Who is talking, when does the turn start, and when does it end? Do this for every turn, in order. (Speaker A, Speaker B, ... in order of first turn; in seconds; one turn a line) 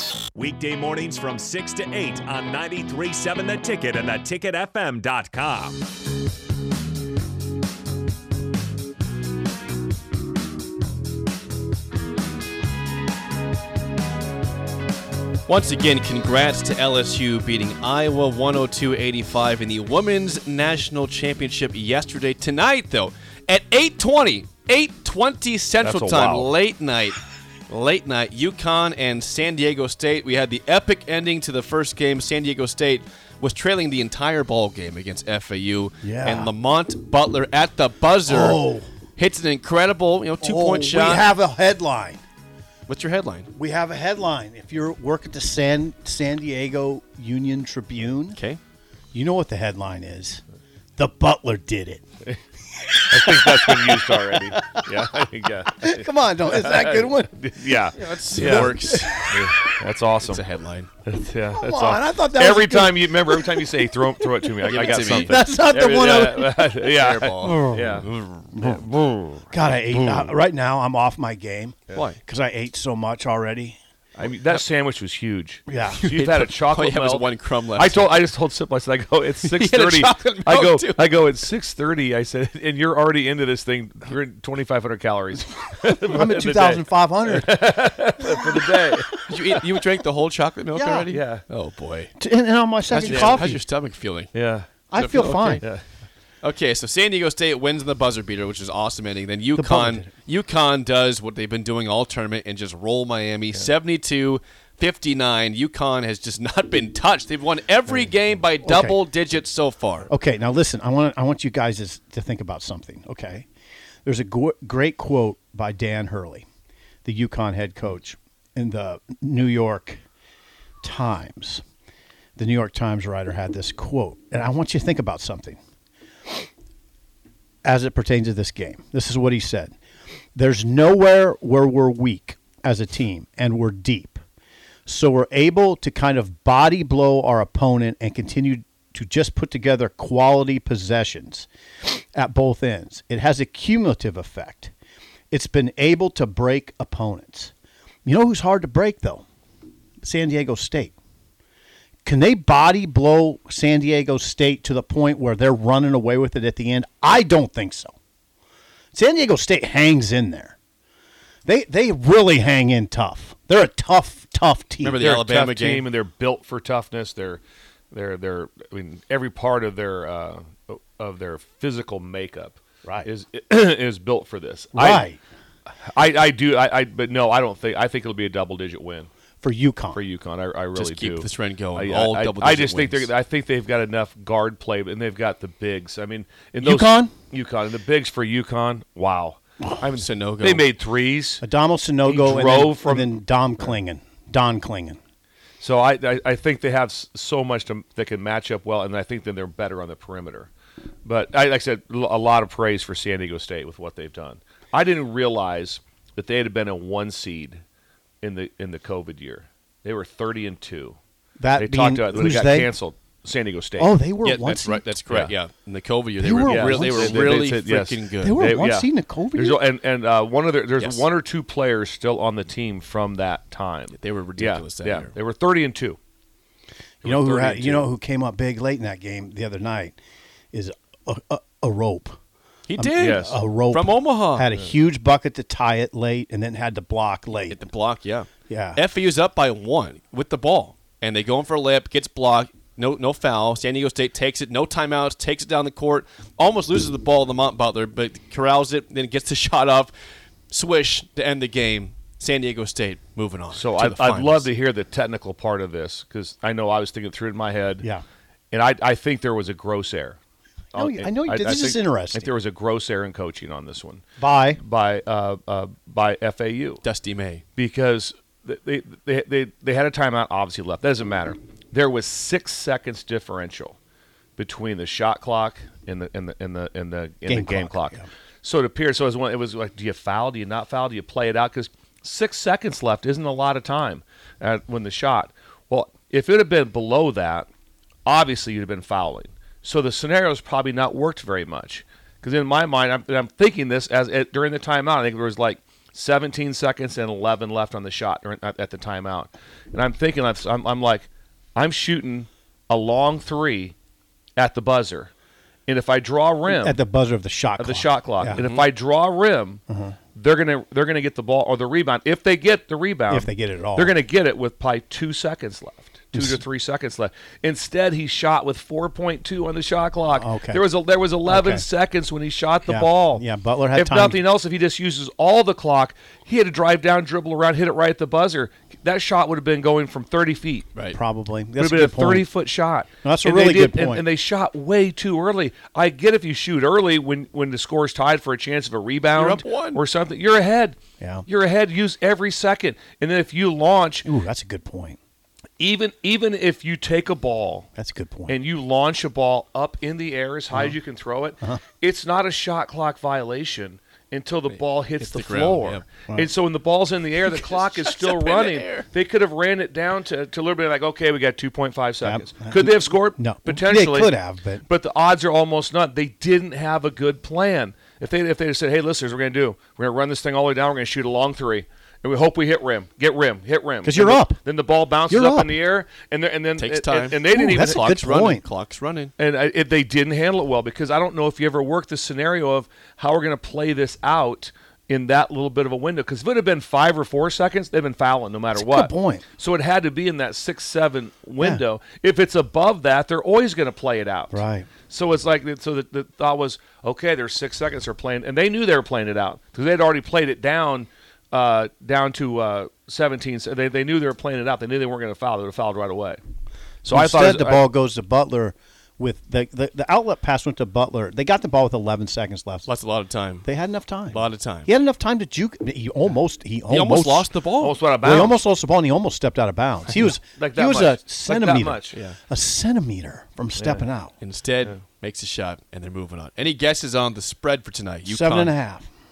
Speaker A: 0.3-5.8
Speaker B: 15.5-27.2
Speaker C: 25.8-26.5
Speaker B: 27.7-38.6
Speaker D: 36.0-36.5
Speaker D: 38.3-38.9
Speaker B: 39.2-41.3
Speaker D: 40.4-42.2
Speaker B: 42.9-43.5
Speaker D: 43.6-48.4
Speaker B: 48.3-48.6
Speaker D: 49.1-50.4
Speaker D: 51.0-52.0
Speaker D: 52.9-54.9
Speaker C: 53.1-60.4
Speaker D: 55.7-57.8
Speaker B: 58.0-59.3
Speaker D: 58.4-59.4
Speaker B: 60.2-60.9
Speaker C: 61.1-69.5
Speaker D: 61.5-68.0
Speaker B: 64.6-65.4
Speaker B: 67.0-68.5
Speaker D: 68.5-68.8
Speaker D: 69.5-73.8
Speaker B: 71.9-72.2
Speaker C: 74.2-89.3
Speaker D: 75.7-76.0
Speaker B: 75.9-78.2
Speaker B: 79.4-81.1
Speaker D: 86.1-87.6
Speaker D: 88.3-89.0
Speaker B: 89.3-92.1
Speaker D: 90.8-91.1
Speaker C: 91.1-91.5
Speaker D: 92.2-93.6
Speaker B: 92.9-94.3
Speaker C: 93.1-93.5
Speaker C: 94.3-94.7
Speaker D: 94.9-95.6
Speaker B: 95.0-95.6
Speaker B: 96.4-110.1
Speaker D: 99.6-100.1
Speaker D: 107.9-109.0
Speaker D: 110.1-113.5
Speaker D: 114.0-116.5
Speaker D: 117.0-120.0
Speaker D: 120.8-121.6
Speaker D: 122.4-125.6
Speaker D: 127.6-129.8
Speaker D: 130.3-134.2
Speaker D: 134.9-144.7
Speaker D: 145.3-147.5
Speaker D: 148.1-149.2
Speaker D: 150.0-150.9
Speaker D: 152.1-157.9
Speaker D: 158.9-160.6
Speaker D: 161.5-165.0
Speaker B: 164.8-165.9
Speaker C: 165.0-175.1
Speaker D: 174.7-175.2
Speaker C: 175.9-179.1
Speaker D: 179.4-180.0
Speaker C: 179.9-191.4
Speaker B: 180.7-183.1
Speaker D: 186.6-187.2
Speaker B: 189.9-190.7
Speaker D: 191.4-195.0
Speaker C: 192.0-193.7
Speaker C: 195.6-200.5
Speaker C: 201.1-207.6
Speaker C: 208.2-211.0
Speaker D: 211.4-212.7
Speaker C: 211.6-213.9
Speaker D: 213.8-214.8
Speaker B: 214.2-218.4
Speaker C: 215.1-215.3
Speaker D: 216.2-217.4
Speaker C: 216.4-226.0
Speaker D: 218.2-219.6
Speaker B: 220.8-221.1
Speaker B: 223.9-225.1
Speaker C: 227.0-227.9
Speaker D: 227.0-230.0
Speaker D: 230.5-232.2
Speaker B: 232.7-234.5
Speaker D: 232.8-237.6
Speaker C: 233.0-233.4
Speaker B: 237.5-249.9
Speaker D: 238.5-238.8
Speaker B: 250.5-254.5
Speaker C: 253.5-257.9
Speaker C: 258.5-260.2
Speaker D: 260.7-262.3
Speaker C: 260.7-264.0
Speaker D: 264.2-264.6
Speaker C: 264.6-266.8
Speaker B: 266.8-267.4
Speaker C: 267.6-273.8
Speaker C: 274.4-287.5
Speaker D: 277.3-278.1
Speaker C: 288.1-303.7
Speaker C: 304.4-305.1
Speaker C: 305.7-306.8
Speaker D: 306.5-308.4
Speaker C: 307.6-309.6
Speaker B: 308.4-308.6
Speaker D: 309.7-310.0
Speaker C: 310.1-323.2
Speaker D: 313.1-313.9
Speaker D: 316.1-316.4
Speaker D: 320.1-320.6
Speaker D: 321.3-321.7
Speaker D: 322.7-324.2
Speaker C: 323.8-330.7
Speaker D: 330.9-332.3
Speaker C: 331.6-344.1
Speaker D: 333.0-334.1
Speaker B: 339.1-339.8
Speaker D: 341.0-341.3
Speaker D: 344.1-345.0
Speaker C: 345.6-347.7
Speaker D: 347.8-348.4
Speaker C: 348.3-364.1
Speaker B: 355.0-355.9
Speaker B: 357.2-358.9
Speaker D: 362.0-364.6
Speaker C: 364.7-377.9
Speaker D: 373.8-374.4
Speaker D: 375.1-375.6
Speaker B: 376.6-379.1
Speaker D: 377.3-378.4
Speaker C: 379.2-406.2
Speaker D: 388.6-389.2
Speaker D: 394.3-394.7
Speaker C: 406.8-407.6
Speaker D: 406.9-412.7
Speaker B: 412.7-413.5
Speaker D: 413.4-417.4
Speaker B: 414.0-414.7
Speaker B: 416.7-417.8
Speaker C: 417.6-418.4
Speaker D: 418.0-424.2
Speaker C: 420.3-422.0
Speaker B: 421.9-422.2
Speaker C: 423.6-423.9
Speaker B: 424.2-428.6
Speaker D: 428.1-428.9